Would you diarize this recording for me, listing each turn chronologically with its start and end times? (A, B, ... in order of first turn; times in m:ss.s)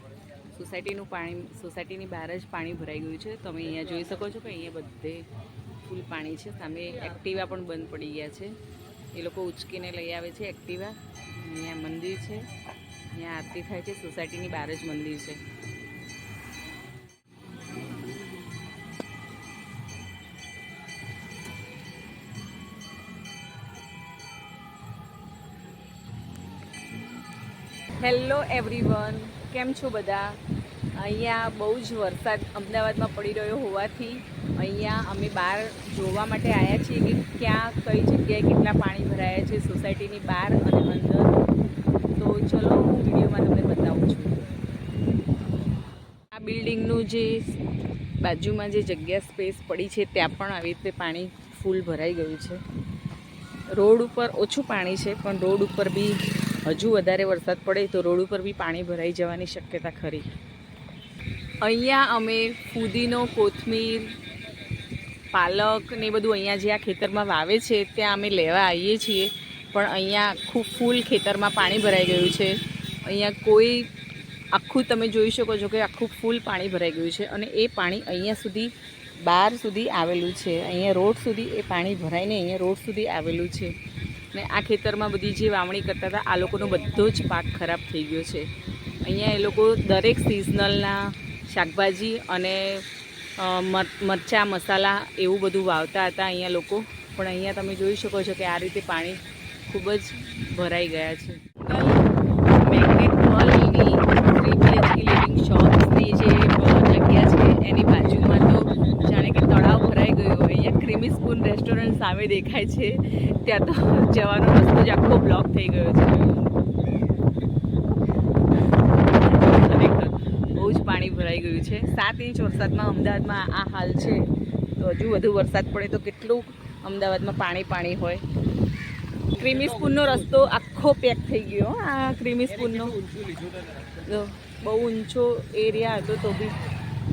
0:00.5-0:05.3 A
0:05.8-0:08.6 A
0:09.1-0:12.5 A
0:13.1-0:15.4 A
0:28.0-0:30.4 A
0:31.0-0:41.4 A
0:42.1-0:44.5 A
0:46.3-0:47.6 A
0:48.2-0:52.6 A
0:53.8-1:00.3 A
1:01.6-1:04.2 A
1:05.3-1:13.9 A
1:14.5-1:23.8 A
1:24.3-1:32.9 A
1:33.4-1:56.4 A
1:59.0-2:08.2 A
2:09.3-2:13.3 A
2:13.9-2:16.6 A